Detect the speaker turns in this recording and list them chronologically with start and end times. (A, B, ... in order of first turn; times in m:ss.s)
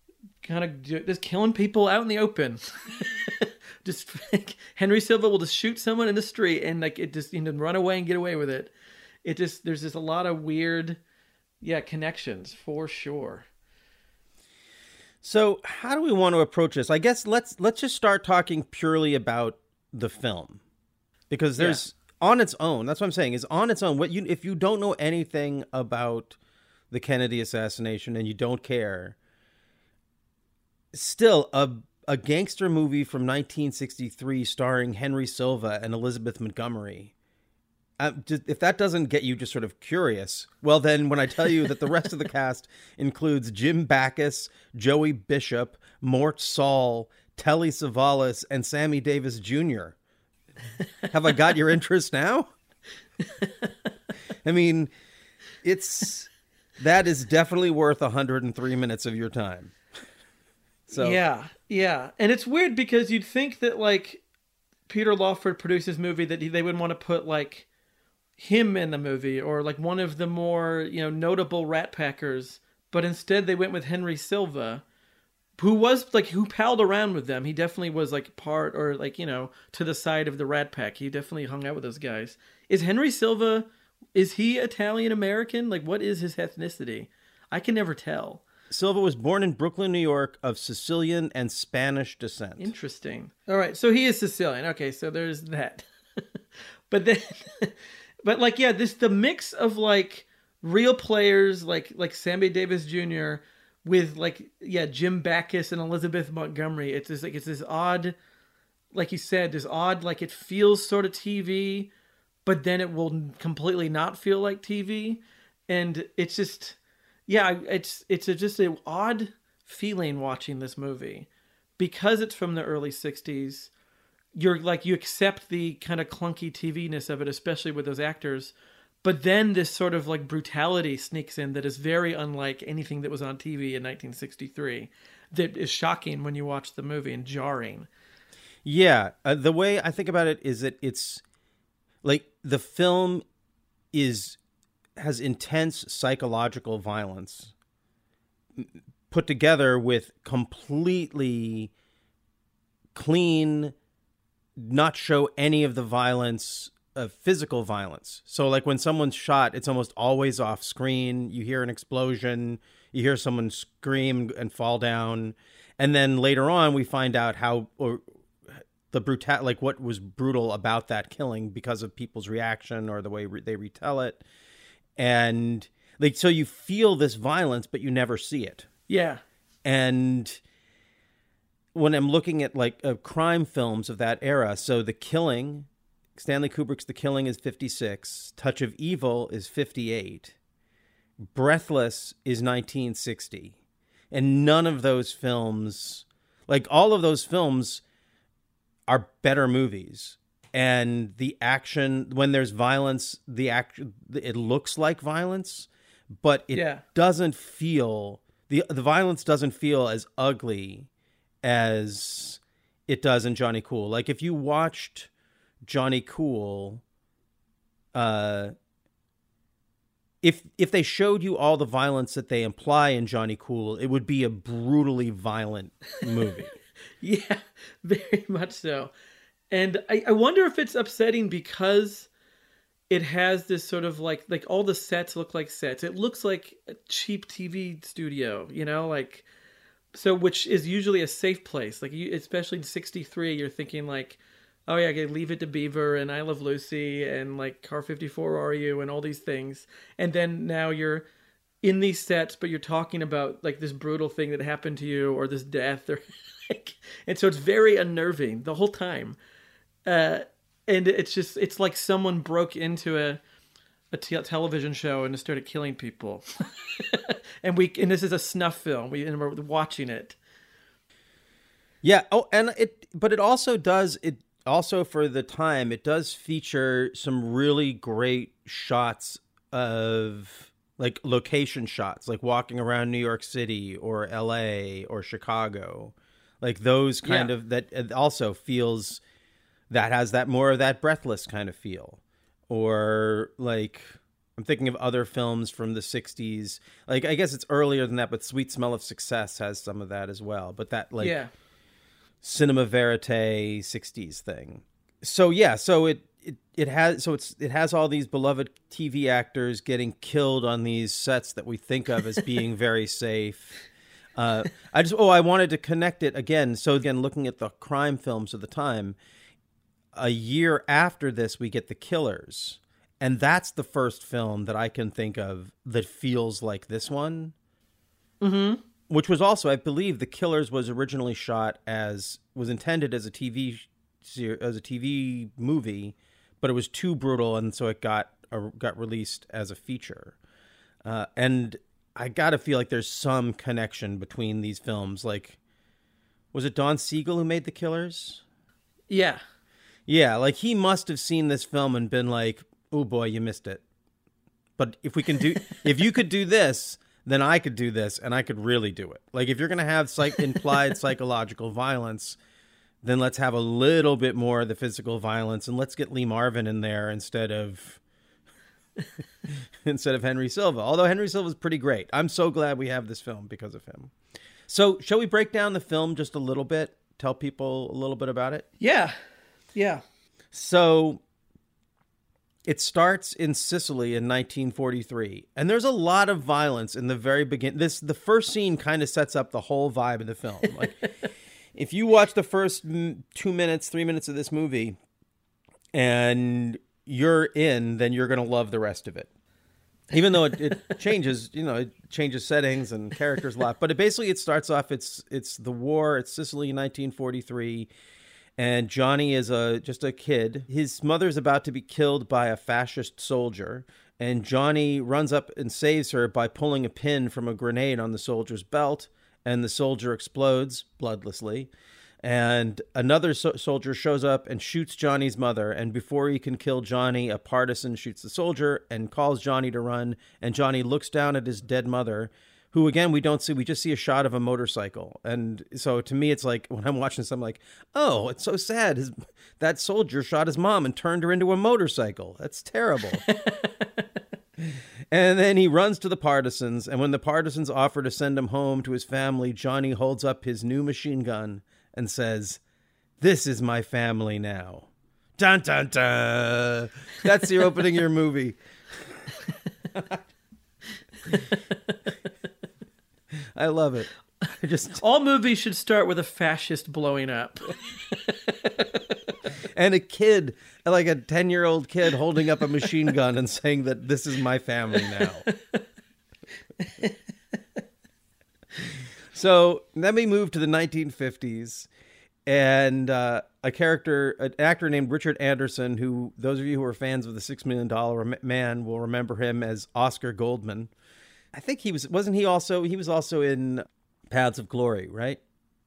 0:00.4-0:08.7 A
0:09.2-0:11.0 A
0:11.6-0:13.5 A
0:15.2-0:20.6 B
0:21.3-0:26.4 B
0:26.9-0:29.2 B
0:30.9-0:37.1 B
0:38.0-0:50.0 B
0:51.1-0:52.5 B
0:53.4-0:53.7 A
0:54.4-0:54.9 B
0:55.6-0:59.7 B
1:00.9-1:01.2 B
1:00.9-1:04.2 A
1:04.9-1:07.7 A
1:08.4-1:14.8 A
1:15.6-1:28.4 A
1:28.7-1:32.7 B
1:32.6-1:35.8 A
1:36.9-1:48.2 A
1:48.9-1:51.9 A
1:52.5-2:01.3 A
2:01.8-2:03.7 A
2:04.4-2:17.9 A
2:18.6-2:21.2 B
2:22.0-2:23.2 B
2:23.9-2:24.4 B
2:25.0-2:27.5 B
2:28.6-2:31.7 B
2:33.0-2:33.7 B
2:34.6-2:54.2 B
2:55.0-2:58.7 B
2:58.9-2:59.2 A
2:59.6-3:00.4 B
3:01.7-3:10.4 B
3:11.2-3:13.6 B
3:14.1-3:17.8 B
3:18.9-3:25.7 B
3:26.2-3:30.9 B
3:26.5-3:26.8 A
3:31.4-3:35.1 B
3:35.6-3:36.8 B
3:37.9-3:38.5 B
3:40.2-3:46.5 B
3:47.0-3:48.9 A
3:49.5-3:52.1 A
3:52.9-3:59.3 A
3:59.9-4:11.1 A
4:11.6-4:19.2 A
4:19.9-4:23.2 A
4:23.9-4:26.3 A
4:26.8-4:30.2 A
4:31.8-4:49.0 B
4:47.0-4:47.3 A
4:49.7-5:01.2 B
5:01.0-5:01.3 A
5:02.2-5:13.6 B
5:14.2-5:19.0 B
5:19.9-5:27.3 B
5:28.2-5:28.6 A
5:28.9-5:40.2 B
5:40.8-5:45.4 B
5:46.3-5:48.2 B
5:48.9-5:49.2 A
5:49.9-5:53.6 B
5:54.6-6:02.2 B
6:02.8-6:07.8 B
6:09.6-6:13.9 B
6:14.5-6:18.5 B
6:18.6-6:19.0 A
6:19.6-6:19.8 A
6:20.3-6:21.0 B
6:22.5-6:30.8 B
6:31.6-6:34.8 B
6:35.7-6:39.1 B
6:39.9-6:47.7 B
6:48.4-7:01.5 B
7:02.0-7:23.0 B
7:23.1-7:23.7 A
7:24.9-7:32.4 B
7:33.0-7:38.4 B
7:41.1-7:41.4 A
7:43.4-7:44.8 B
7:44.8-7:48.7 A
7:49.6-7:55.3 B
7:59.1-8:01.7 B
8:02.3-8:10.7 B
8:11.3-8:15.2 B